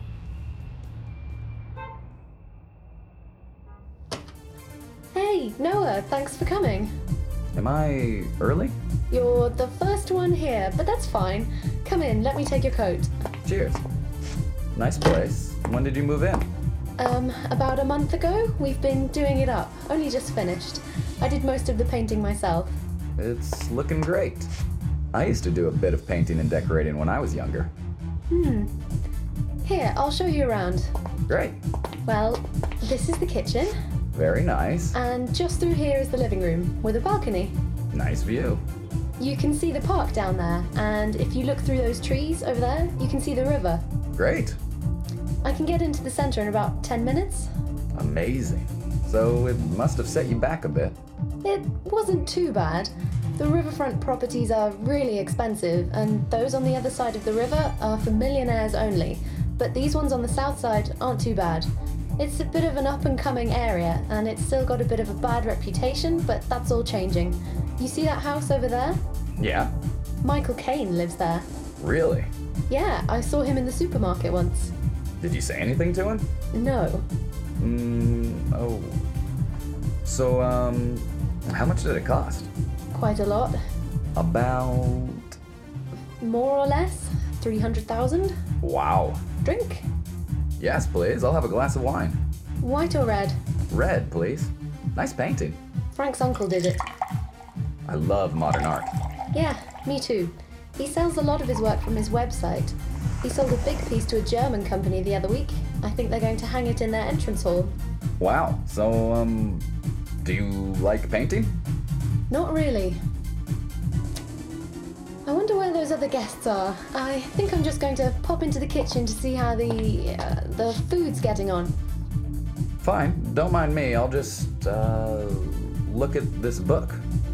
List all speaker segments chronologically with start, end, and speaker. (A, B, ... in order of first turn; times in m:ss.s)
0:05.1-0:06.9 A
0:07.6-0:08.8 B
0:09.1-0:13.1 A
0:13.4-0:13.8 B
0:14.7-0:16.5 B
0:17.0-0:22.8 A
0:23.2-0:24.5 B
0:25.1-0:27.7 B
0:28.3-0:28.7 A
0:29.6-0:30.9 A
0:31.3-0:31.6 B
0:32.1-0:33.7 A
0:34.1-0:35.0 B
0:34.9-0:37.6 A
0:37.9-0:38.6 B
0:39.2-0:43.8 A
0:44.2-0:44.6 B
0:45.4-0:47.5 A
0:47.9-0:51.0 B
0:51.4-1:01.7 A
1:02.2-1:09.0 A
1:09.4-1:09.7 B
1:10.2-1:11.5 A
1:11.8-1:12.3 B
1:12.7-1:14.7 A
1:15.2-1:16.3 B
1:16.5-1:17.0 A
1:17.6-1:19.0 B
1:20.0-1:22.5 B
1:22.9-1:23.6 A
1:24.2-1:25.4 B
1:26.2-1:28.4 A
1:28.6-1:29.2 B
1:29.4-1:29.9 A
1:30.6-1:32.2 B
1:32.6-1:33.4 A
1:33.7-1:35.6 B
1:35.9-1:36.8 A
1:37.9-1:38.9 B
1:39.3-1:47.7 A
1:48.2-1:49.7 B
1:50.2-1:51.5 B
1:52.3-1:53.0 A
1:55.3-2:01.7 A
2:02.8-2:07.0 B